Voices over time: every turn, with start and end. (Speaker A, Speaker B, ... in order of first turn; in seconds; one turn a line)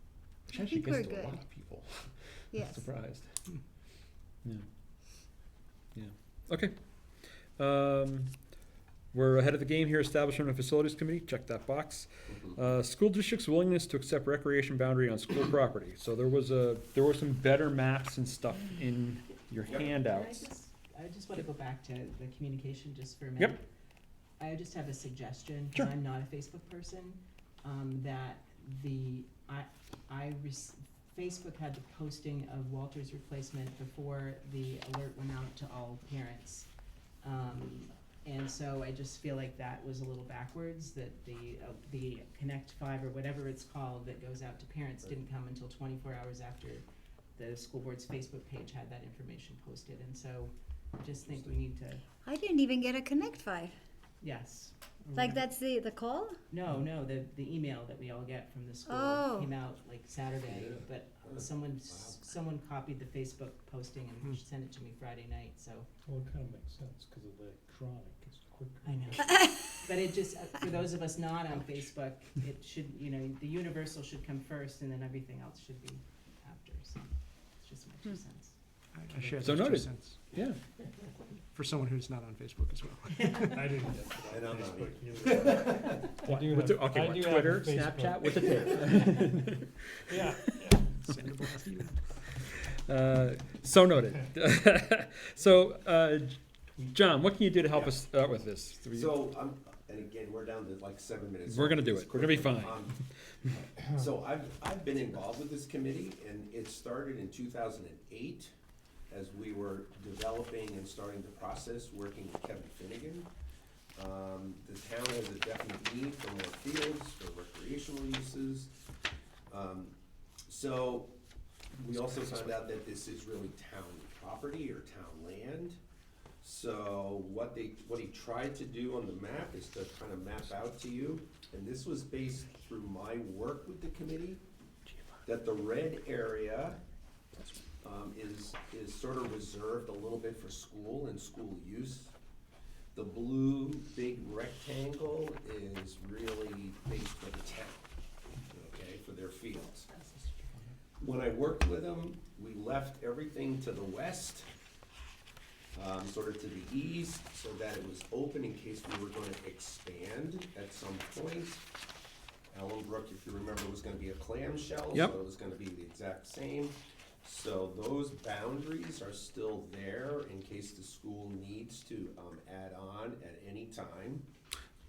Speaker A: 0.5-1.4
Speaker B: 0.5-3.3
Speaker A: 2.5-2.8
Speaker B: 5.9-6.7
Speaker B: 7.6-8.3
Speaker B: 9.1-20.4
Speaker C: 19.8-23.6
Speaker C: 24.4-36.7
Speaker C: 37.2-46.8
Speaker C: 47.4-52.0
Speaker D: 51.2-51.6
Speaker A: 52.2-53.7
Speaker C: 54.2-55.3
Speaker A: 55.1-56.4
Speaker C: 56.5-65.9
Speaker A: 58.9-59.5
Speaker D: 60.4-62.2
Speaker E: 66.1-69.3
Speaker C: 68.8-77.1
Speaker C: 77.6-78.5
Speaker F: 78.9-80.3
Speaker B: 79.2-80.6
Speaker F: 81.5-83.7
Speaker C: 83.3-83.6
Speaker E: 83.5-88.9
Speaker D: 84.3-86.0
Speaker B: 86.3-89.8
Speaker E: 90.1-90.8
Speaker F: 90.9-92.0
Speaker B: 92.8-96.4
Speaker B: 96.9-99.1
Speaker D: 97.7-98.0
Speaker D: 98.9-103.0
Speaker B: 101.5-102.8
Speaker D: 103.5-108.5
Speaker D: 109.1-113.3
Speaker D: 114.0-118.7
Speaker D: 119.5-119.9
Speaker D: 120.5-121.1
Speaker D: 121.7-125.8
Speaker D: 126.4-134.4
Speaker D: 135.2-136.8
Speaker D: 137.8-142.1
Speaker D: 142.9-147.9
Speaker D: 148.5-149.9
Speaker B: 150.0-150.5
Speaker D: 151.0-154.5
Speaker D: 155.7-161.6
Speaker D: 162.5-174.2